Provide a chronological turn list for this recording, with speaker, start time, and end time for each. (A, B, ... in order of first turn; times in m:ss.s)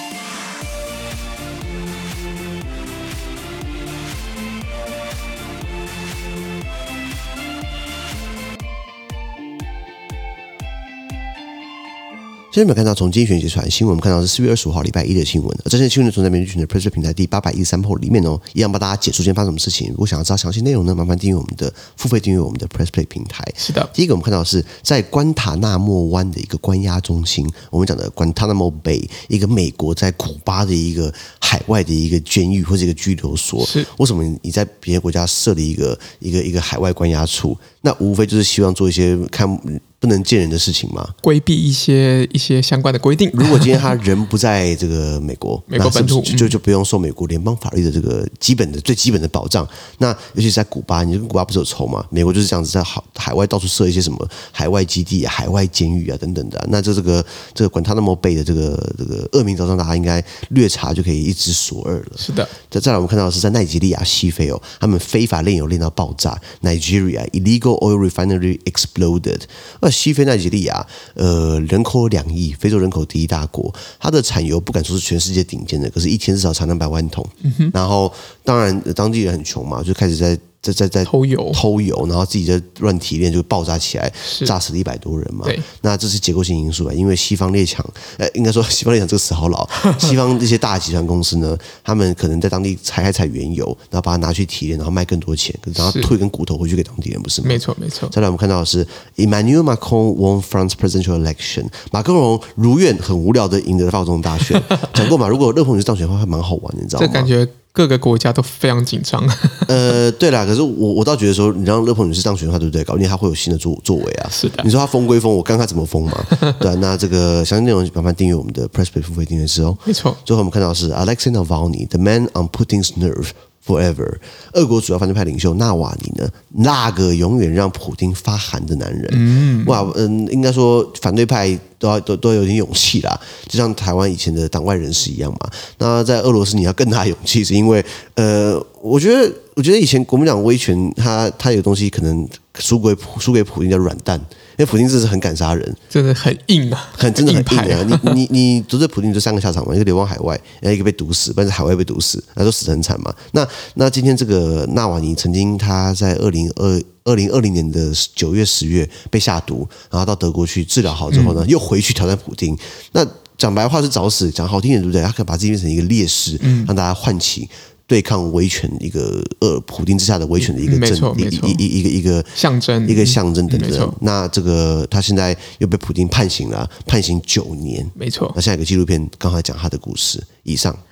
0:12.5-0:41.1 A
0:23.6-0:23.9 B
0:33.6-0:33.9 B
0:41.2-0:43.8 B
0:43.3-1:47.3 A
0:45.7-0:46.5 B
1:02.2-1:02.5 B
1:17.4-1:17.7 B
1:21.0-1:21.6 B
1:24.2-1:24.5 B
1:35.8-1:36.1 B
1:37.4-1:38.1 B
1:47.0-1:49.9 B
1:49.7-2:25.8 A
1:54.3-1:54.7 B
1:56.3-1:56.6 B
1:59.8-2:00.2 B
2:09.1-2:09.9 B
2:25.9-2:28.2 B
2:26.9-3:00.8 A
2:41.1-2:41.4 B
2:46.4-2:46.7 B
2:50.4-2:51.6 B
2:52.4-2:54.0 B
2:58.0-2:58.4 B